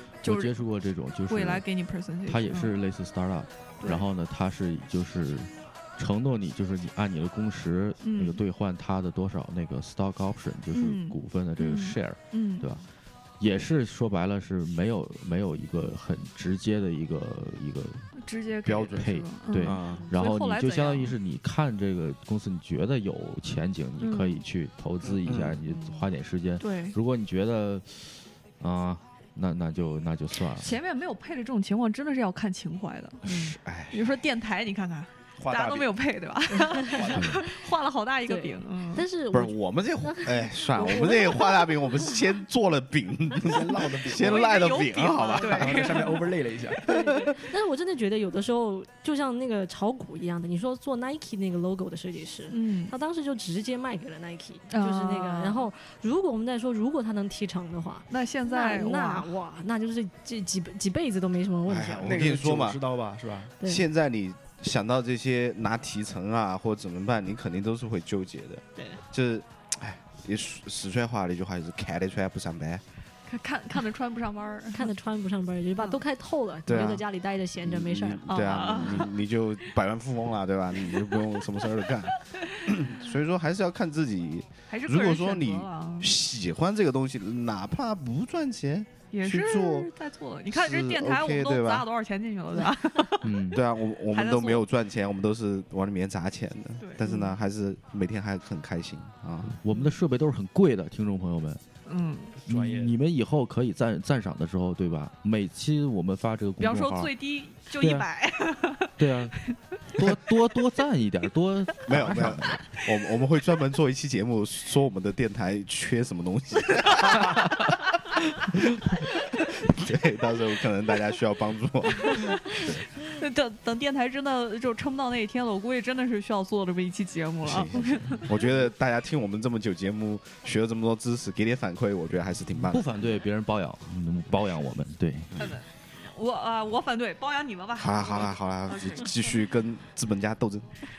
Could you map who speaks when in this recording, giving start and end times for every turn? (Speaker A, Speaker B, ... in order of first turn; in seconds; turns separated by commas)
Speaker A: 0.2-1.6, Speaker B: 0.2-0.6, Speaker B: 1.3-2.7, Speaker A: 2.2-12.8, Speaker B: 8.0-8.4, Speaker B: 10.7-12.7, Speaker A: 13.4-18.1, Speaker B: 18.2-21.1, Speaker C: 18.6-19.1, Speaker A: 18.9-30.8, Speaker C: 19.6-20.1, Speaker B: 24.0-24.4, Speaker C: 25.2-25.6, Speaker B: 26.6-27.0, Speaker B: 30.5-33.3, Speaker D: 33.2-33.5, Speaker C: 33.3-34.0, Speaker B: 33.9-39.0, Speaker E: 35.4-35.9, Speaker D: 36.5-36.9, Speaker E: 36.8-37.4, Speaker D: 38.2-41.6, Speaker C: 39.3-45.9, Speaker B: 40.9-41.3, Speaker E: 43.4-44.7, Speaker B: 44.1-46.4, Speaker E: 45.4-46.8, Speaker D: 46.8-62.2, Speaker C: 46.9-47.3, Speaker B: 52.5-52.9, Speaker B: 54.7-55.7, Speaker B: 58.1-59.3, Speaker C: 61.7-62.8, Speaker E: 62.0-63.5, Speaker D: 63.6-63.8, Speaker C: 63.6-72.8, Speaker B: 73.3-74.9, Speaker D: 74.7-79.0, Speaker C: 76.7-77.0, Speaker C: 77.6-89.9, Speaker B: 78.3-79.1, Speaker B: 82.4-82.7, Speaker B: 84.7-86.2, Speaker B: 89.1-93.3, Speaker C: 90.5-91.9, Speaker A: 93.2-93.6, Speaker C: 93.5-99.6, Speaker B: 94.0-94.7, Speaker B: 96.8-97.3, Speaker A: 99.5-101.6, Speaker B: 101.8-102.3, Speaker E: 102.4-103.0, Speaker A: 102.5-107.1, Speaker B: 106.6-109.5, Speaker A: 107.8-108.1, Speaker A: 109.0-112.6, Speaker C: 111.8-122.8, Speaker B: 122.0-128.4, Speaker C: 127.4-132.8, Speaker A: 132.7-135.4, Speaker B: 135.4-139.3, Speaker C: 137.8-140.8